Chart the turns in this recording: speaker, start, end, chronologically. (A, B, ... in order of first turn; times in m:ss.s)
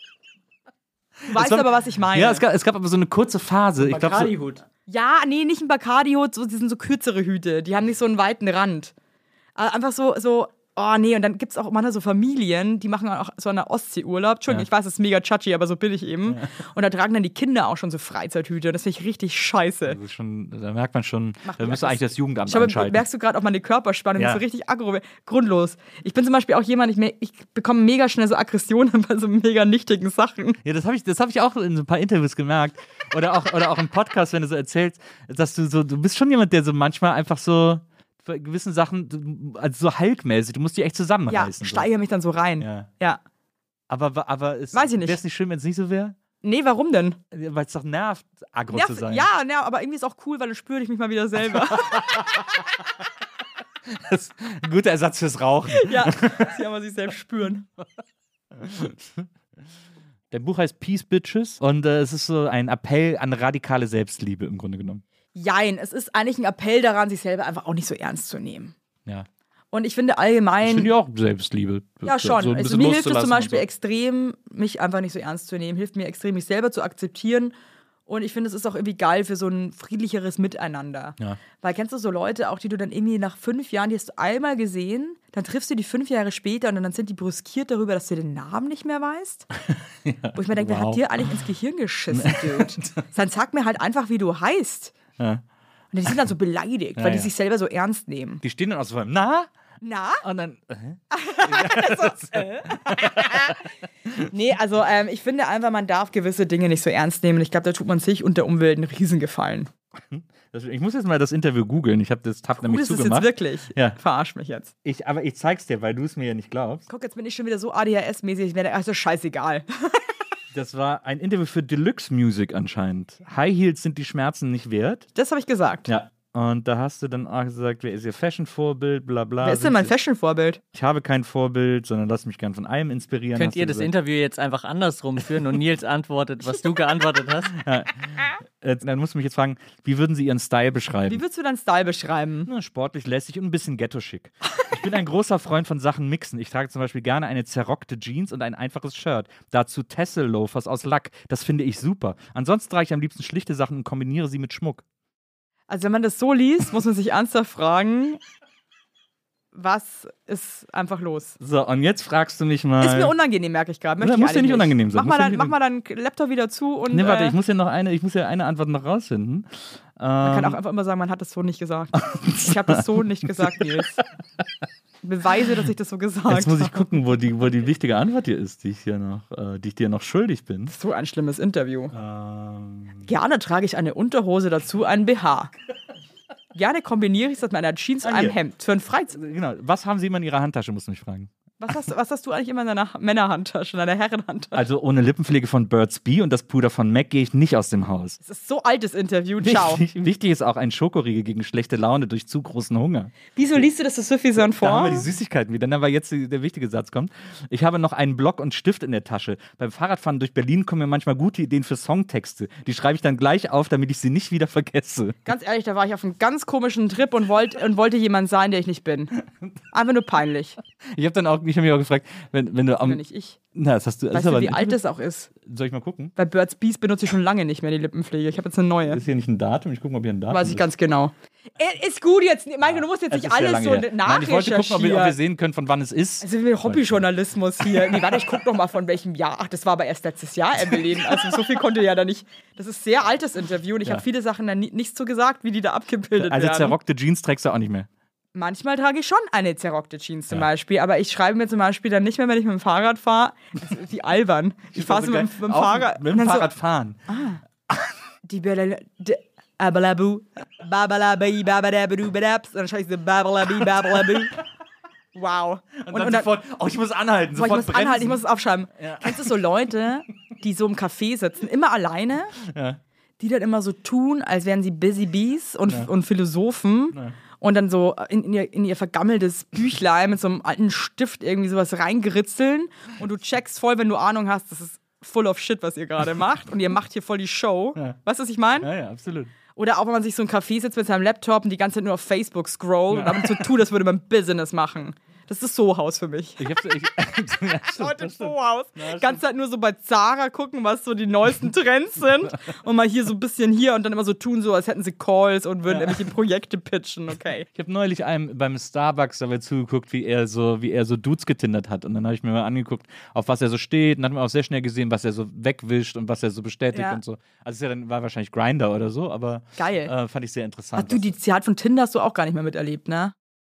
0:01.2-0:04.4 A
0:01.3-0:02.4 B
0:03.8-0:04.6 C
0:04.9-0:08.9 B
0:09.6-0:20.0 B
0:19.9-0:23.0 A
0:21.4-0:30.6 B
0:24.2-0:24.4 A
0:30.6-0:41.9 A
0:41.3-0:43.2 B
0:42.6-0:42.9 A
0:43.9-0:46.2 A
0:44.7-0:45.2 B
0:46.4-0:47.2 B
0:47.3-0:49.3 A
0:48.7-0:52.4 B
0:51.8-0:52.2 A
0:53.8-0:56.5 A
0:55.7-0:57.7 B
0:58.5-0:59.3 A
1:00.3-1:05.0 A
1:05.4-1:08.7 B
1:09.7-1:10.9 B
1:10.6-1:13.6 A
1:12.0-1:17.5 B
1:18.1-1:29.5 B
1:29.7-1:31.0 A
1:30.3-1:35.0 B
1:32.1-1:33.0 A
1:35.9-1:38.4 B
1:37.0-1:37.3 A
1:38.4-1:39.5 A
1:39.8-1:40.2 B
1:40.2-1:43.6 A
1:41.1-1:43.6 B
1:44.3-1:49.7 B
1:50.0-1:54.0 A
1:52.6-1:54.7 B
1:54.8-1:56.9 A
1:56.9-2:00.1 B
2:00.5-2:05.1 A
2:05.2-2:05.9 B
2:05.9-2:09.9 A
2:09.4-2:10.6 B
2:10.7-2:13.9 A
2:13.4-2:17.6 C
2:17.5-2:21.2 A
2:21.1-2:22.5 B
2:22.5-2:34.8 A
2:35.7-2:38.2 B
2:39.5-2:41.4 B
2:41.4-2:43.1 A
2:42.8-2:47.4 B
2:44.0-2:45.5 A
2:46.9-2:50.6 A
2:50.2-2:54.0 B
2:52.0-2:53.5 A
2:55.0-2:56.9 B
2:56.3-3:00.7 A
3:00.7-3:01.9 B
3:01.9-3:03.1 A
3:03.0-3:05.5 B
3:06.5-3:09.2 B
3:08.0-3:08.4 A
3:09.1-3:11.3 A
3:11.6-3:14.6 B
3:14.5-3:18.2 A
3:18.2-3:19.8 B
3:19.4-3:23.1 A
3:23.4-3:25.1 B
3:24.4-3:35.2 A
3:35.2-3:39.1 B
3:39.7-3:40.6 B
3:40.9-3:43.0 A
3:42.8-3:43.4 B
3:43.5-3:44.8 A
3:44.1-3:45.3 B
3:45.4-3:46.1 A
3:46.2-3:49.0 B
3:48.9-3:50.6 A
3:50.3-3:55.2 B
3:52.6-3:57.0 A
3:56.2-4:06.8 B
3:57.8-3:58.2 A
4:06.2-4:07.9 A
4:08.4-4:16.5 B
4:14.7-4:17.0 A
4:17.1-4:17.4 B
4:17.7-4:18.0 A
4:18.2-4:24.4 B
4:24.0-4:24.4 A
4:25.2-4:26.3 B
4:25.8-4:28.2 A
4:27.4-4:32.4 B
4:28.8-4:29.4 A
4:32.4-4:32.8 A
4:33.2-4:48.7 B
4:36.9-4:37.2 A
4:48.6-4:49.3 A
4:49.6-4:56.6 B
4:52.9-4:53.5 A
4:56.4-4:59.2 A
4:57.8-5:07.5 B
5:05.7-5:06.1 A
5:07.5-5:21.1 A
5:16.7-5:17.0 B
5:19.6-5:19.9 B
5:20.8-5:23.1 B